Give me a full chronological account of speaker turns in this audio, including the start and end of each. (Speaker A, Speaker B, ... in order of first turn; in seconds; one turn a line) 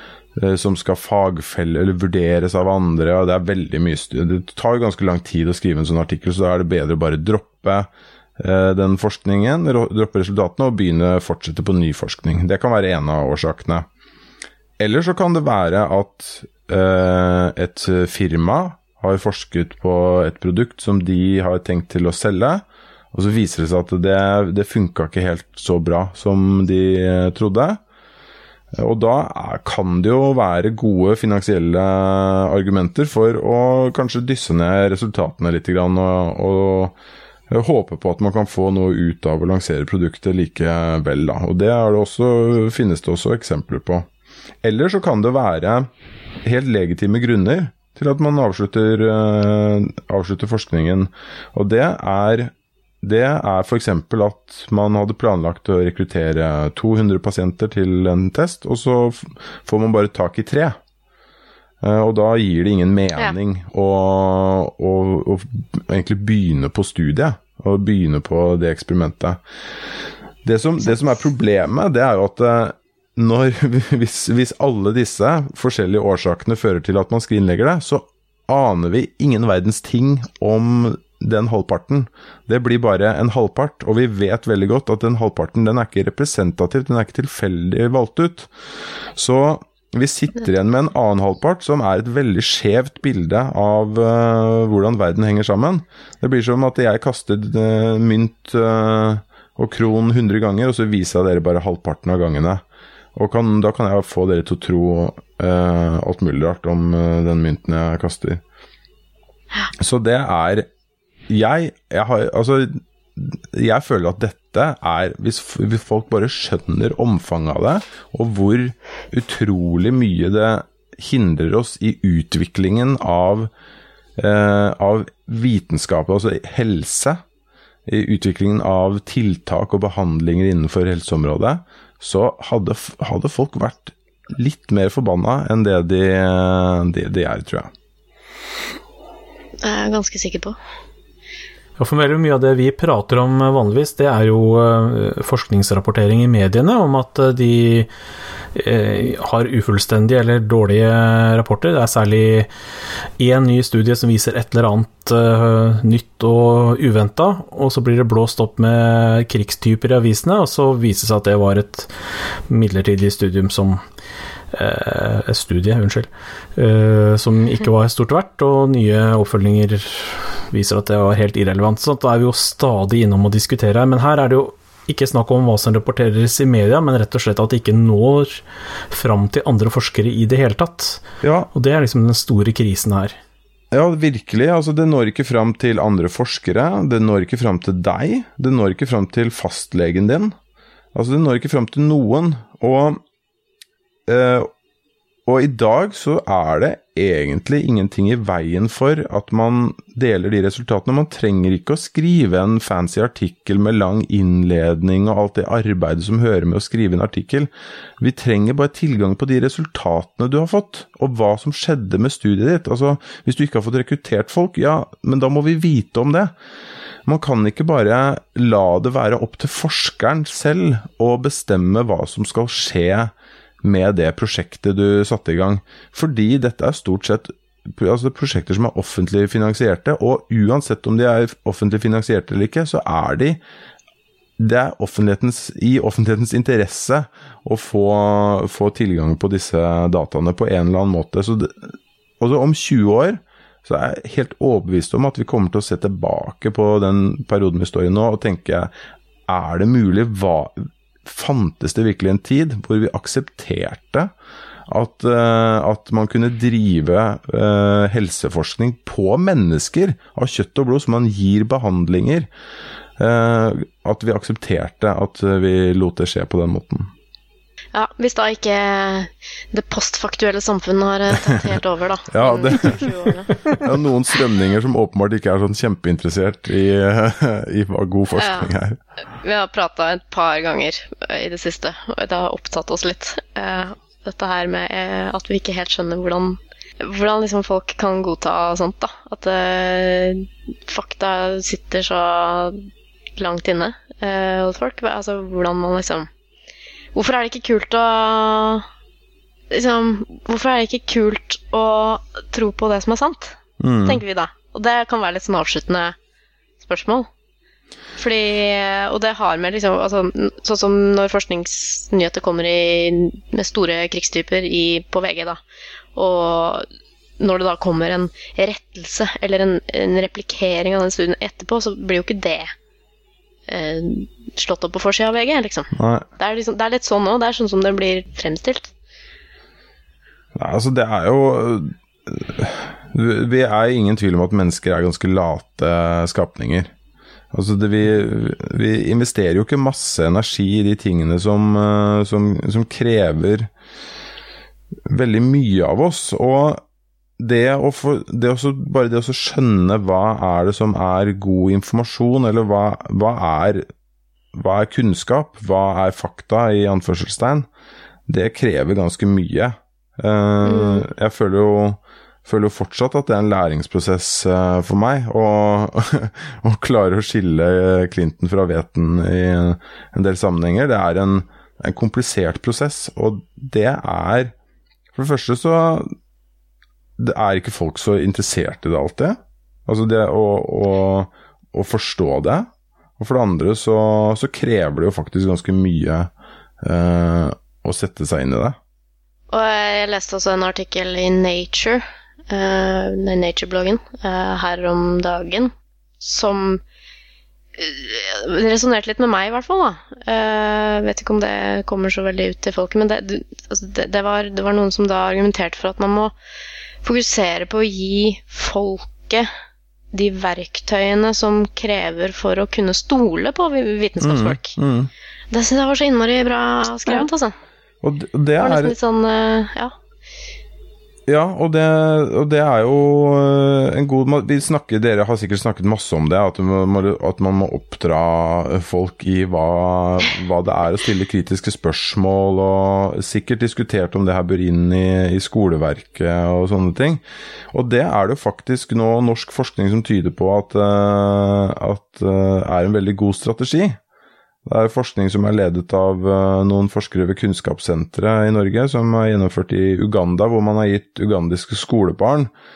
Speaker A: 0.4-13.9
Speaker A: 14.8-27.8
Speaker A: 28.8-37.0
Speaker A: 37.5-44.1
Speaker A: 44.6-45.9
Speaker A: 46.4-60.8
Speaker A: 61.8-69.4
Speaker A: 70.4-88.5
Speaker A: 89.2-102.6
Speaker A: 103.2-108.4
Speaker A: 109.8-110.7
Speaker A: 111.3-123.5
Speaker A: 124.2-127.2
Speaker A: 127.9-137.7
Speaker B: 139.6-140.6
Speaker C: 141.8-147.9
Speaker C: 148.6-152.5
Speaker C: 153.2-161.9
Speaker C: 162.5-163.8
Speaker C: 164.5-183.2
Speaker A: 181.2-181.5
Speaker A: 183.7-190.3
Speaker A: 190.9-193.0
Speaker A: 194.1-194.5
Speaker A: 195.3-216.3
Speaker A: 217.1-233.4
Speaker A: 234.4-248.7
Speaker A: 249.3-254.1
Speaker A: 254.7-262.3
Speaker A: 263.0-266.9
Speaker B: 267.7-273.4
Speaker A: 272.1-278.8
Speaker B: 278.2-278.5
Speaker B: 279.2-292.6
Speaker B: 293.2-296.1
Speaker B: 296.9-298.7
Speaker B: 299.5-306.0
Speaker A: 303.6-304.0
Speaker B: 306.6-307.1
Speaker B: 308.0-315.4
Speaker B: 316.0-316.7
Speaker B: 317.2-322.5
Speaker B: 323.5-328.7
Speaker A: 325.8-326.1
Speaker A: 330.4-336.7
Speaker A: 337.3-343.5
Speaker A: 344.9-346.6
Speaker A: 347.2-353.7
Speaker A: 354.3-357.5
Speaker A: 358.1-374.3
Speaker B: 360.4-360.9
Speaker A: 374.9-375.9
Speaker A: 377.0-386.1
Speaker A: 386.6-388.6
Speaker B: 389.3-396.6
Speaker B: 397.6-406.1
Speaker B: 406.8-409.3
Speaker B: 409.9-414.6
Speaker A: 414.0-414.9
Speaker B: 415.3-417.4
Speaker A: 417.8-418.8
Speaker B: 418.4-419.7
Speaker A: 421.1-443.8
Speaker A: 444.5-452.3